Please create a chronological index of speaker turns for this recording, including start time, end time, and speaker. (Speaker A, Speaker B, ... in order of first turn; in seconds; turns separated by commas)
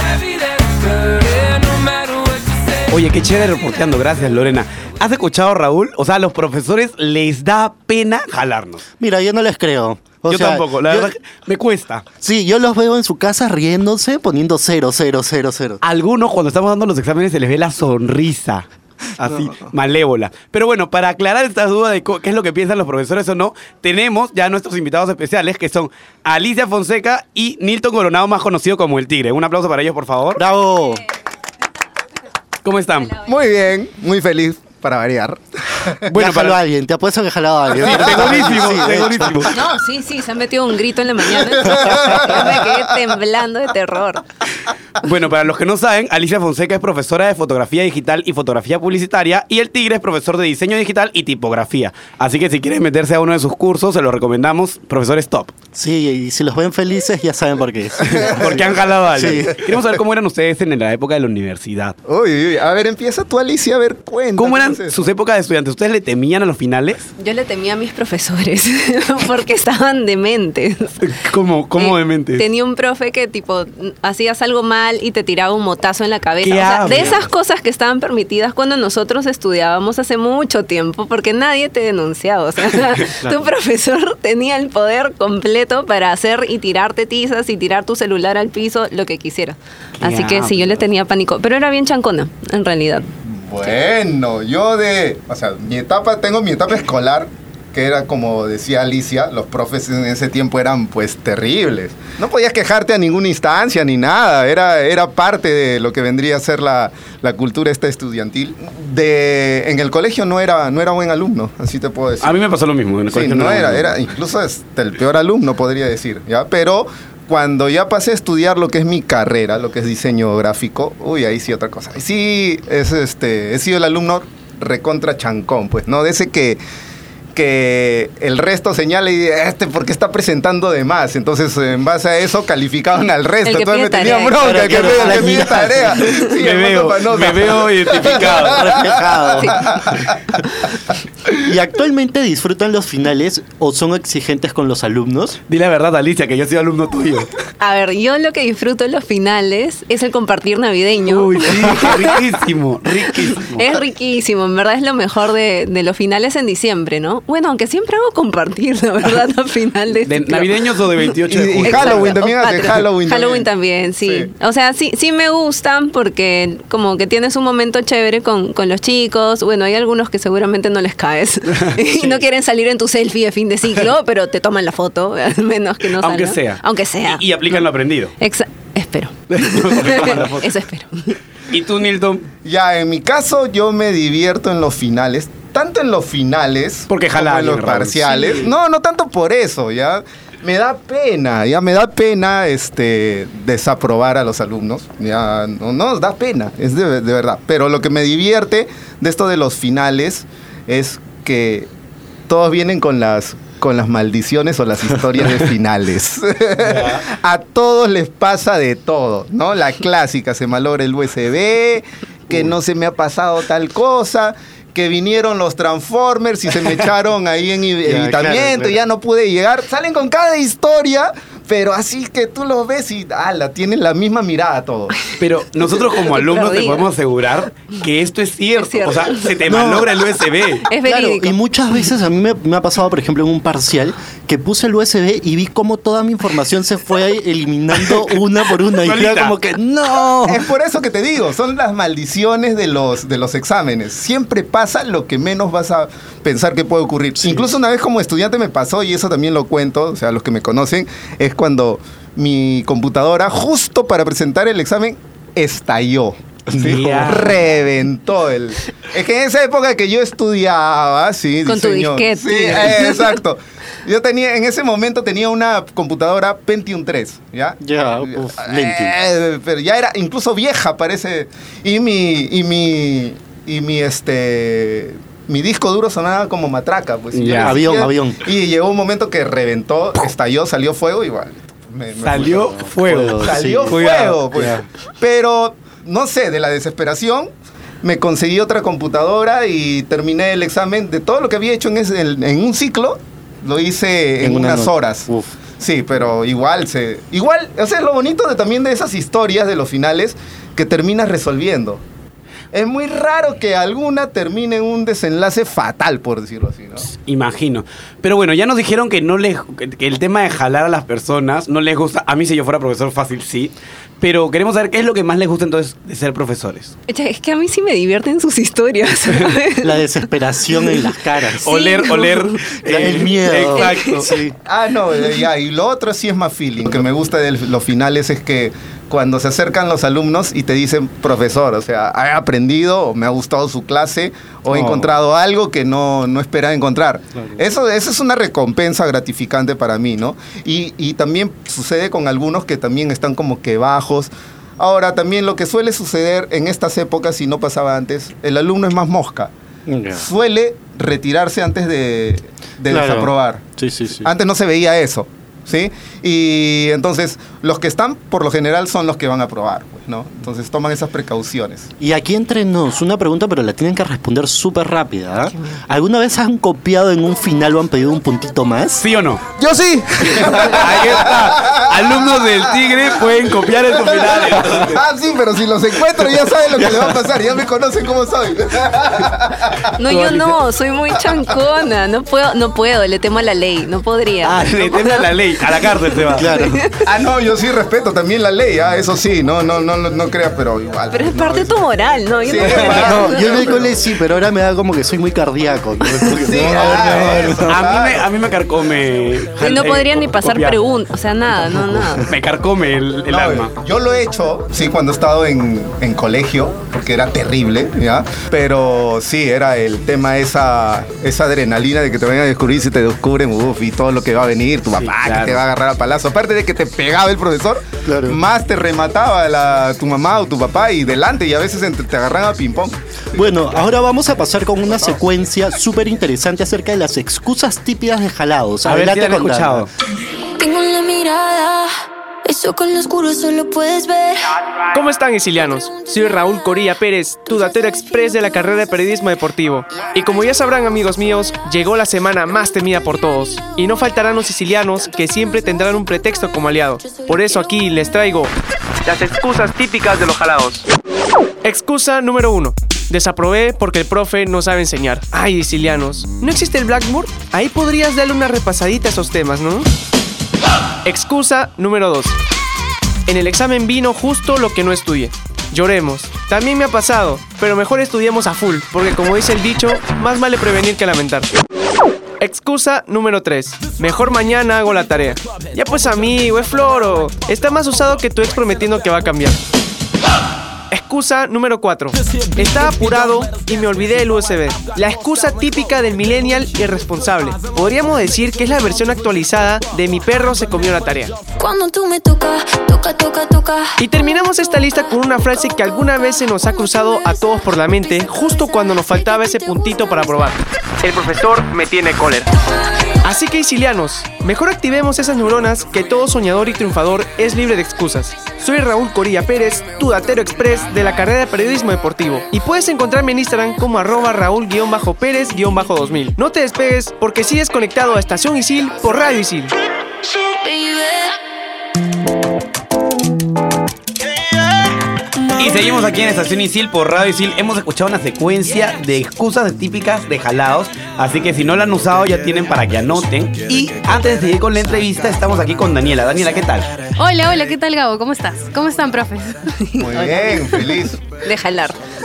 Speaker A: 2.9-8.8, Speaker B: 9.0-11.1, Speaker A: 10.3-12.0, Speaker B: 12.2-15.8, Speaker A: 15.8-18.6, Speaker A: 19.2-30.4, Speaker B: 30.4-31.0, Speaker A: 32.6-33.1, Speaker C: 33.2-36.0, Speaker A: 36.1-36.6, Speaker B: 36.1-39.5, Speaker A: 37.8-39.5, Speaker D: 39.5-44.2, Speaker A: 45.0-55.5, Speaker B: 55.7-59.6, Speaker A: 58.1-62.0, Speaker C: 62.0-65.1, Speaker A: 64.3-67.1, Speaker D: 67.2-71.0, Speaker A: 71.0-72.4, Speaker D: 71.8-93.1, Speaker A: 76.4-77.2, Speaker B: 83.2-83.5, Speaker A: 90.0-90.8, Speaker C: 93.3-112.3, Speaker A: 112.2-114.0, Speaker C: 113.1-126.6, Speaker C: 127.3-140.0, Speaker D: 133.4-135.6, Speaker B: 134.4-136.0, Speaker A: 136.2-138.9, Speaker B: 138.2-139.8, Speaker D: 139.3-139.6, Speaker B: 141.4-145.4, Speaker A: 145.5-147.3, Speaker D: 147.6-152.0, Speaker A: 151.0-153.7, Speaker D: 153.4-160.5, Speaker A: 160.1-162.2, Speaker C: 161.3-163.5, Speaker D: 161.6-177.6, Speaker C: 164.0-164.3, Speaker A: 176.0-178.1, Speaker D: 178.2-181.2, Speaker A: 179.3-180.5, Speaker A: 181.5-182.2, Speaker C: 182.4-201.7, Speaker A: 186.9-188.5, Speaker C: 202.3-224.9, Speaker A: 206.6-207.0, Speaker B: 217.8-218.8, Speaker A: 225.2-230.7, Speaker D: 226.0-226.8, Speaker D: 228.6-229.3, Speaker B: 229.5-229.9, Speaker D: 230.7-231.3, Speaker B: 230.8-240.4, Speaker A: 238.8-239.4, Speaker C: 240.2-282.5, Speaker A: 256.5-257.4, Speaker D: 261.4-263.2, Speaker B: 267.6-268.9, Speaker A: 277.1-277.6, Speaker B: 277.3-278.2, Speaker A: 282.0-284.2, Speaker B: 282.2-283.8, Speaker C: 283.2-287.3, Speaker B: 284.3-284.6, Speaker C: 287.8-301.8, Speaker B: 294.2-295.4, Speaker C: 302.5-306.9, Speaker A: 306.9-316.7, Speaker D: 316.9-320.0, Speaker B: 319.6-321.6, Speaker A: 321.4-324.1, Speaker D: 321.5-322.4, Speaker B: 322.6-324.3, Speaker D: 323.5-323.9, Speaker C: 324.4-349.3, Speaker B: 334.5-334.9, Speaker B: 337.1-337.4, Speaker B: 349.6-350.1, Speaker C: 349.9-353.4, Speaker B: 352.7-354.1, Speaker C: 354.0-361.7, Speaker B: 361.8-368.8, Speaker A: 368.8-369.2, Speaker C: 369.9-372.1, Speaker A: 370.0-374.8, Speaker C: 373.7-379.6, Speaker D: 379.8-386.6, Speaker A: 379.9-380.4, Speaker A: 384.2-386.3, Speaker B: 386.1-386.6, Speaker C: 386.8-393.7, Speaker D: 390.9-393.5, Speaker B: 392.4-397.6, Speaker A: 395.9-400.6, Speaker C: 396.2-398.0, Speaker D: 399.4-402.1, Speaker B: 401.5-402.0, Speaker A: 402.1-403.5, Speaker C: 403.1-422.8, Speaker A: 414.8-415.4, Speaker B: 417.9-418.2, Speaker B: 423.1-429.7, Speaker A: 428.6-429.7, Speaker E: 430.4-434.3, Speaker F: 434.7-448.3, Speaker F: 448.8-450.6, Speaker F: 451.4-459.7, Speaker F: 460.8-462.1, Speaker F: 463.1-471.3, Speaker F: 472.2-479.4, Speaker F: 480.7-491.2, Speaker E: 491.3-493.8, Speaker F: 493.8-502.3, Speaker F: 503.0-519.5, Speaker E: 520.0-521.1, Speaker A: 525.4-536.7, Speaker G: 537.0-539.9, Speaker C: 539.8-541.0, Speaker D: 539.8-541.8